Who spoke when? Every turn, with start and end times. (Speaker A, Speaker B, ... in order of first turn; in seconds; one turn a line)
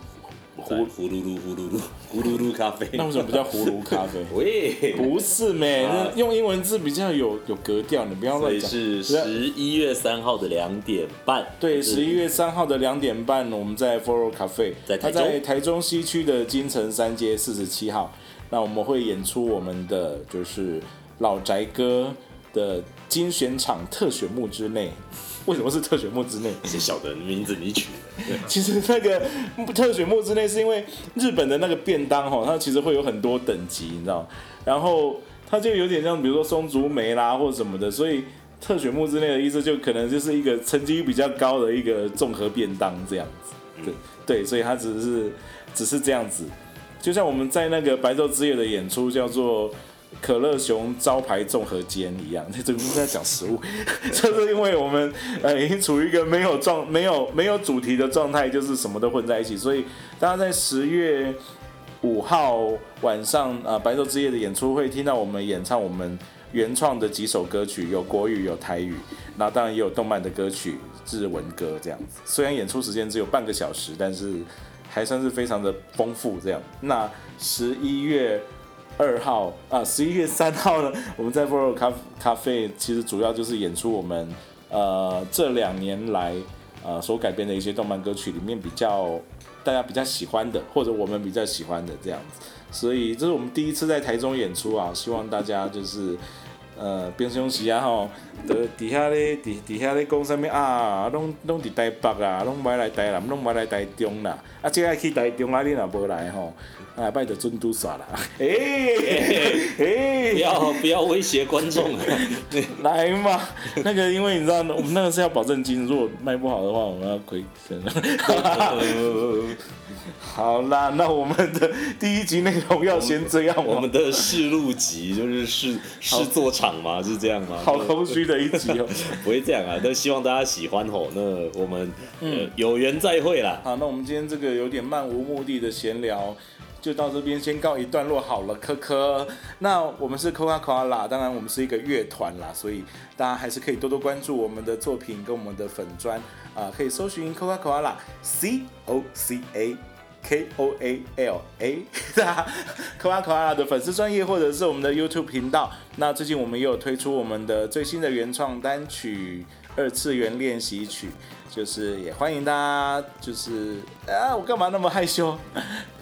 Speaker A: 0.6-5.2
Speaker B: 0.6-0.9
Speaker B: 2.9-4.3
Speaker B: 4.9-9.4
Speaker A: 5.8-6.2
Speaker A: 8.3-12.2
Speaker B: 11.6-26.7
Speaker A: 14.9-15.4
Speaker A: 26.6-28.5
Speaker B: 28.2-61.4
Speaker B: 62.0-96.2
Speaker B: 96.7-110.8
Speaker A: 109.0-109.7
Speaker A: 110.3-112.7
Speaker B: 112.1-119.2
Speaker A: 118.2-119.6
Speaker B: 120.1-124.3
Speaker A: 122.9-133.6
Speaker B: 126.1-126.3
Speaker B: 127.5-129.2
Speaker B: 132.2-132.5
Speaker B: 133.6-165.9